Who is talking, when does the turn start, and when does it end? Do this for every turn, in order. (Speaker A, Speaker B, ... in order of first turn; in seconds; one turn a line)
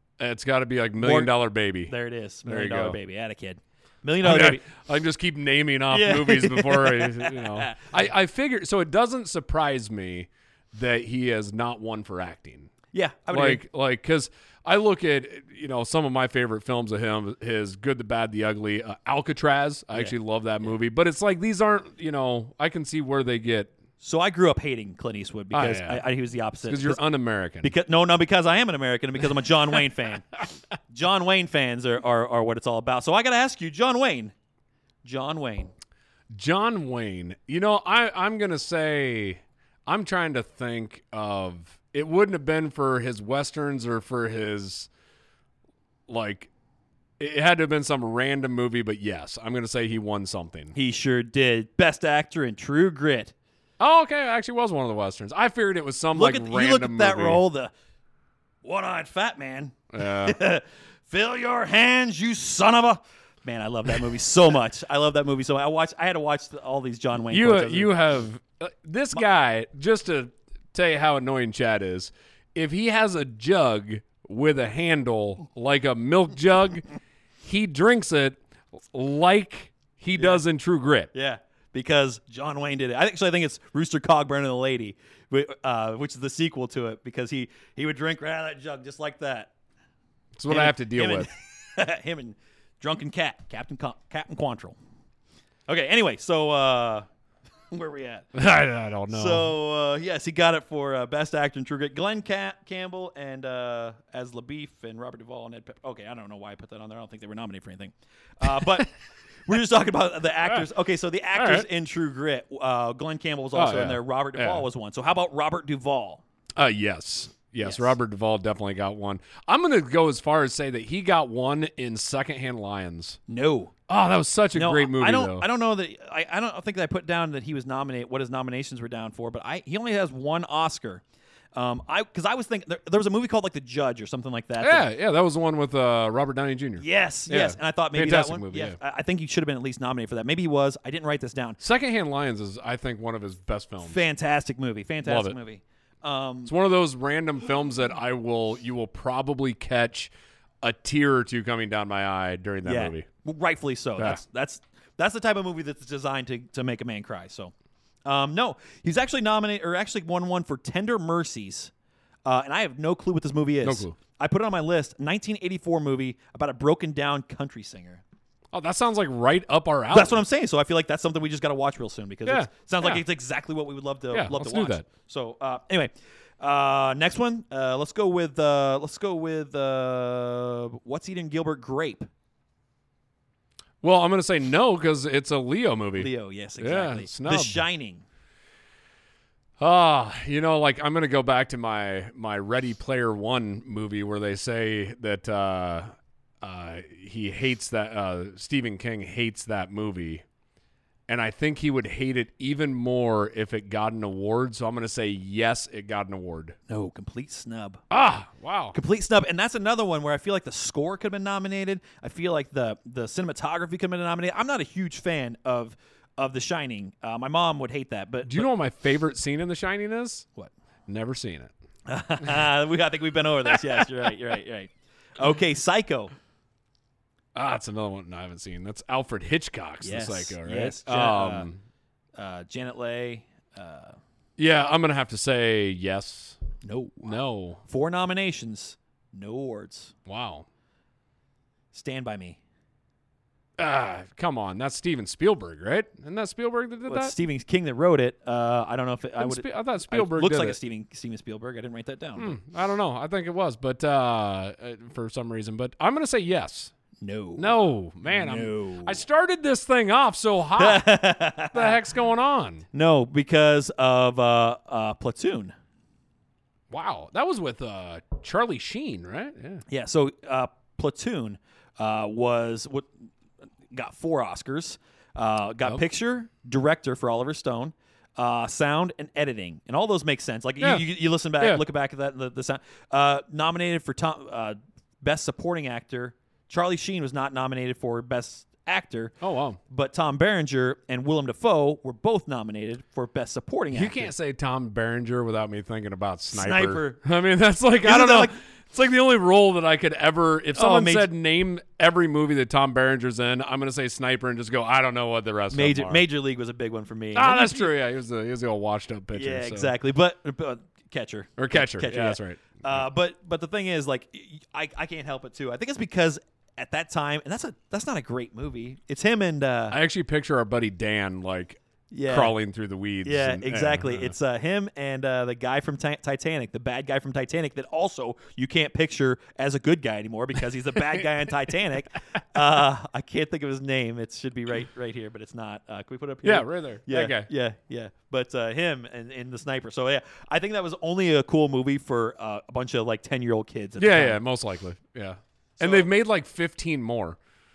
Speaker A: 0.2-1.9
Speaker B: 1.0-4.6
Speaker A: 2.5-3.0
Speaker A: 4.2-12.7
Speaker B: 5.9-7.8
Speaker B: 12.9-13.6
Speaker A: 13.3-23.8
Speaker B: 19.9-20.7
Speaker B: 24.0-27.0
Speaker A: 25.5-26.1
Speaker A: 26.6-27.7
Speaker B: 27.6-30.4
Speaker B: 30.9-34.3
Speaker B: 35.0-35.7
Speaker A: 36.3-44.9
Speaker A: 46.1-46.5
Speaker A: 47.2-50.8
Speaker B: 50.8-53.3
Speaker A: 53.8-57.4
Speaker B: 56.1-57.7
Speaker B: 58.6-67.9
Speaker A: 59.9-60.4
Speaker A: 67.3-76.9
Speaker A: 77.4-81.1
Speaker B: 80.2-80.4
Speaker B: 81.1-89.5
Speaker A: 90.4-91.3
Speaker B: 90.5-94.8
Speaker B: 95.7-97.1
Speaker B: 97.7-98.3
Speaker A: 98.3-99.5
Speaker B: 99.1-108.9
Speaker B: 109.5-116.2
Speaker A: 111.3-111.7
Speaker A: 113.5-114.7
Speaker A: 116.6-123.2
Speaker B: 117.6-117.9
Speaker B: 123.3-123.7
Speaker A: 123.9-125.5
Speaker B: 124.5-131.0
Speaker B: 131.5-134.9
Speaker A: 134.6-138.8
Speaker B: 136.8-141.6
Speaker A: 141.6-144.0
Speaker B: 143.8-146.5
Speaker A: 145.0-145.4
Speaker A: 146.4-150.1
Speaker A: 150.6-153.1
Speaker B: 152.6-157.5
Speaker B: 158.1-161.7
Speaker B: 162.2-168.0
Speaker A: 163.6-164.0
Speaker A: 168.5-170.2
Speaker B: 169.9-182.1
Speaker A: 172.3-173.0
Speaker A: 174.1-174.9
Speaker A: 183.8-187.7
Speaker B: 186.0-188.1
Speaker A: 189.6-200.2
Speaker A: 201.1-206.6
Speaker B: 206.7-207.8
Speaker A: 207.9-208.8
Speaker B: 208.7-218.5
Speaker A: 218.2-220.3
Speaker A: 220.9-221.5
Speaker B: 221.9-226.1
Speaker A: 227.3-231.6
Speaker B: 229.8-231.5
Speaker B: 232.2-234.0
Speaker A: 234.4-236.4
Speaker B: 236.6-239.9
Speaker A: 237.0-237.6
Speaker A: 240.1-240.5
Speaker B: 241.7-242.4
Speaker A: 243.6-247.2
Speaker B: 246.9-252.4
Speaker A: 249.2-250.6
Speaker A: 252.2-256.7
Speaker B: 257.0-259.0
Speaker A: 257.4-262.6
Speaker B: 260.6-261.8
Speaker B: 262.7-265.6
Speaker A: 266.7-269.6
Speaker B: 269.7-272.9
Speaker B: 273.7-289.2
Speaker A: 280.6-280.9
Speaker A: 289.2-289.6
Speaker B: 289.7-294.1
Speaker A: 293.7-306.1
Speaker B: 296.3-297.0
Speaker B: 297.8-298.3
Speaker B: 300.5-301.1
Speaker B: 305.5-307.7
Speaker A: 307.1-309.7
Speaker B: 309.1-319.8
Speaker A: 311.4-312.9
Speaker A: 319.7-324.1
Speaker B: 321.9-322.3
Speaker B: 323.0-344.2
Speaker A: 336.2-337.3
Speaker A: 343.8-347.2
Speaker B: 345.6-345.9